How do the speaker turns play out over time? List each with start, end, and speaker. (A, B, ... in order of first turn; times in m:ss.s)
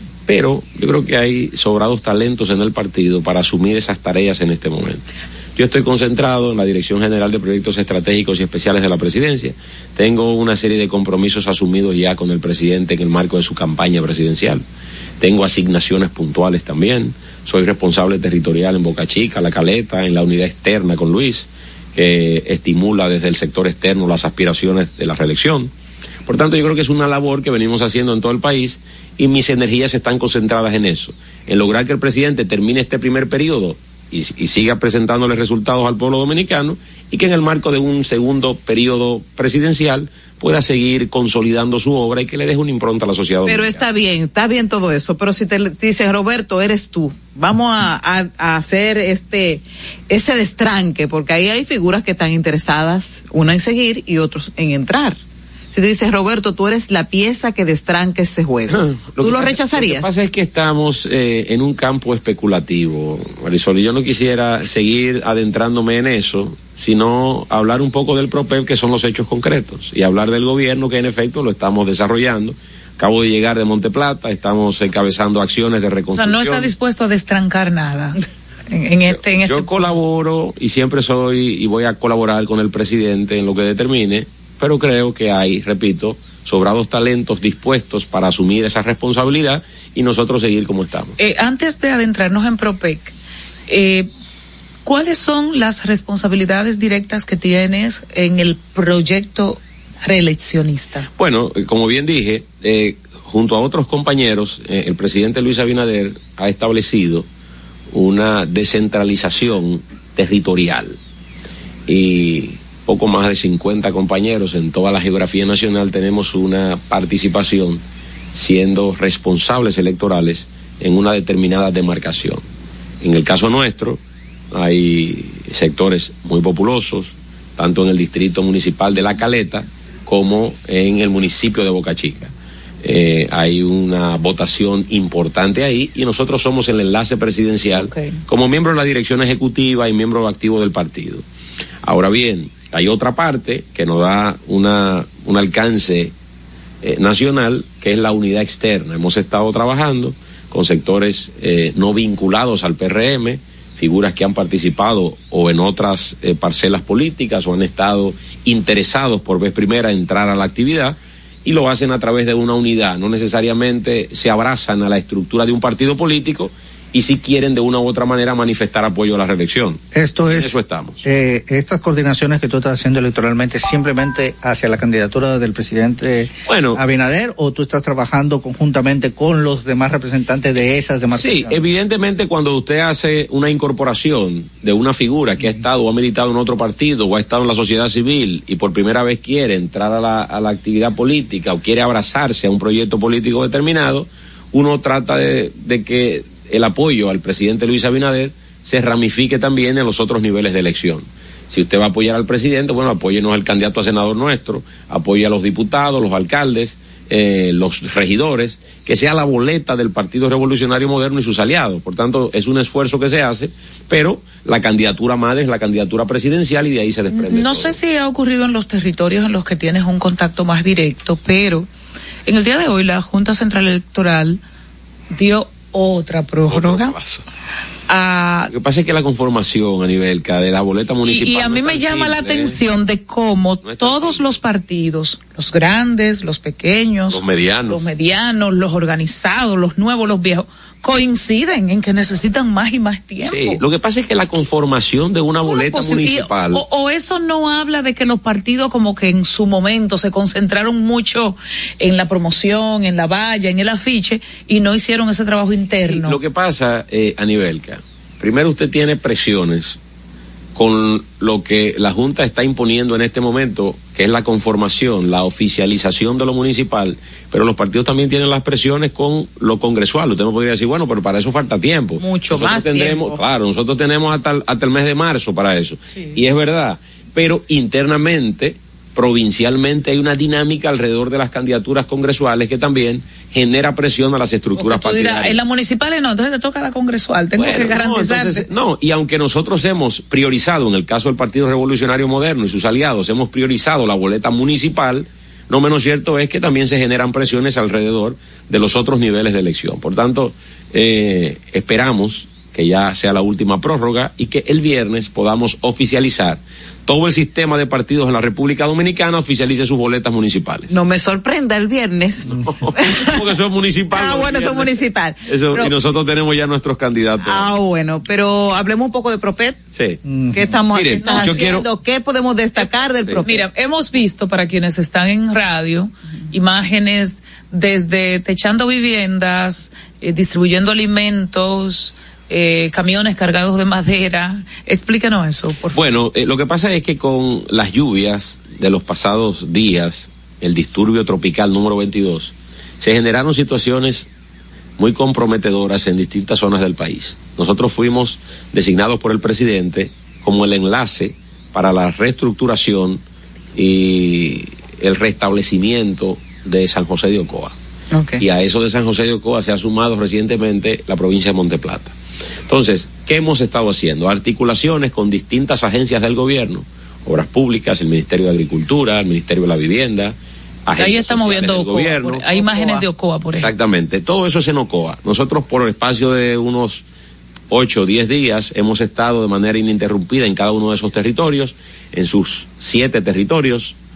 0:00.3-0:14.6 A
0:15.2-0:25.7 A
0:26.3-0:43.8 A
0:43.4-0:55.2 B
0:55.7-1:00.1 B
0:58.7-1:16.7 A
1:16.1-1:18.2 C
1:18.7-1:19.9 C
1:19.1-1:31.2 A
1:31.2-1:33.1 C
1:33.7-1:34.1 C
1:34.8-1:41.1 C
1:41.2-1:47.3 A
1:47.9-1:51.0 A
1:51.9-1:57.8 A
1:58.3-2:02.4 A
2:03.0-2:04.0 A
2:04.5-2:12.3 A
2:12.8-2:21.2 A
2:17.8-2:18.2 C
2:21.8-2:26.1 A
2:26.8-2:49.8 A
2:49.9-3:01.6 D
2:50.3-2:51.0 A
2:56.5-2:56.8 A
3:01.1-3:37.8 A
3:37.1-3:41.7 C
3:42.2-3:44.4 C
3:45.1-3:46.9 C
3:46.5-3:47.2 A
3:47.9-3:48.5 C
3:48.5-3:52.6 A
3:51.0-4:03.6 C
3:53.6-3:54.4 A
3:57.1-3:57.9 A
4:03.2-4:06.6 A
4:05.4-4:16.2 C
4:15.8-4:19.8 A
4:20.5-4:45.4 A
4:32.0-4:33.2 B
4:44.6-4:48.4 C
4:47.4-5:10.7 A
5:10.7-5:13.2 B
5:12.3-5:17.5 A
5:13.9-5:15.7 B
5:17.2-5:19.6 B
5:19.7-5:20.0 A
5:20.0-5:20.6 D
5:20.3-5:23.4 B
5:20.7-5:21.7 A
5:21.0-5:21.5 C
5:23.2-5:35.8 C
5:35.7-5:44.1 A
5:44.8-5:53.0 A
5:53.5-5:57.5 A
5:57.9-5:58.2 B
5:58.2-6:01.9 A
6:02.5-6:12.8 A
6:10.8-6:13.5 C
6:13.4-6:16.8 A
6:17.5-6:23.7 A